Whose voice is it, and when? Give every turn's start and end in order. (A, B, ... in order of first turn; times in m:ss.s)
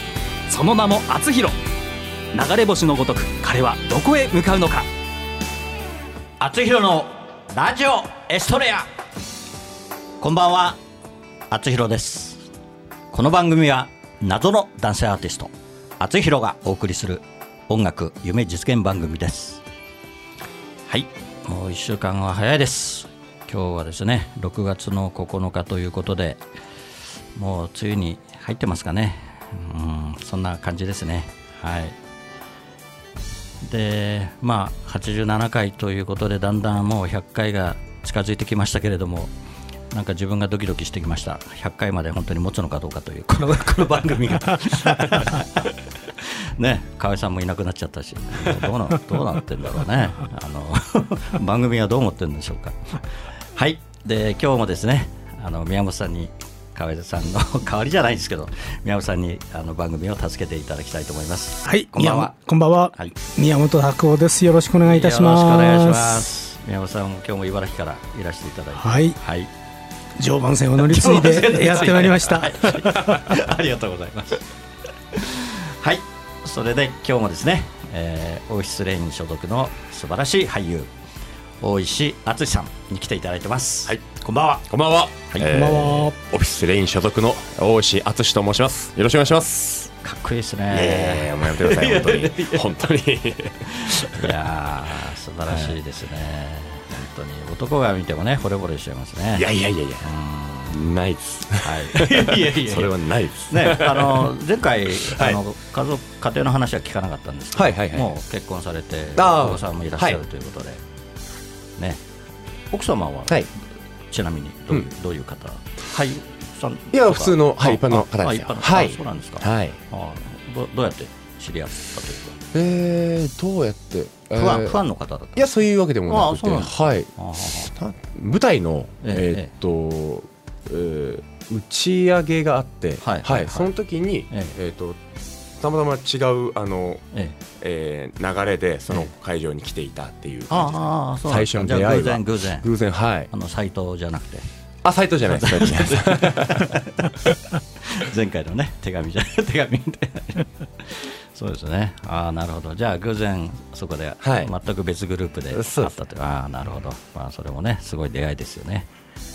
0:00.5-0:01.6 A
0:02.3-0:04.9 A
0:06.4-0:08.9 B
0:10.2-0:10.8 B
0:11.5-0:12.4 B
0:13.1-0:19.6 B
0:20.9-0:26.4 B
0:27.3-0:32.0 B
0:33.6-0:39.3 B
0:39.9-0:53.0 B
0:53.5-1:02.3 B
1:01.6-1:06.2 C
1:04.8-1:09.5 B
1:08.8-1:09.2 C
1:10.2-1:13.4 C
1:10.9-1:14.4 B
1:15.1-1:20.9 B
1:21.6-1:24.6 B
1:24.7-1:29.9 D
1:25.5-1:26.1 C
1:30.0-1:32.6 B
1:30.7-1:34.3 D
1:33.7-1:39.5 B
1:39.3-1:40.1 D
1:40.0-1:40.8 B
1:40.7-1:44.3 D
1:41.6-1:42.9 B
1:43.4-1:50.8 B
1:44.9-1:45.4 D
1:47.5-1:48.1 D
1:49.2-1:50.2 D
1:52.7-1:53.4 B
1:54.1-2:02.4 B
1:56.9-1:59.8 D
2:02.5-2:04.8 D
2:04.3-2:05.4 B
2:05.3-2:15.0 D
2:06.1-2:07.7 B
2:09.0-2:09.5 B
2:13.0-2:13.7 B
2:14.3-2:14.5 B
2:15.6-2:17.0 D
2:17.6-2:23.3 D
2:20.5-2:22.7 B
2:23.3-2:24.5 B
2:24.8-2:26.7 D
2:25.3-2:38.9 B
2:34.2-2:34.5 D
2:35.5-2:35.9 D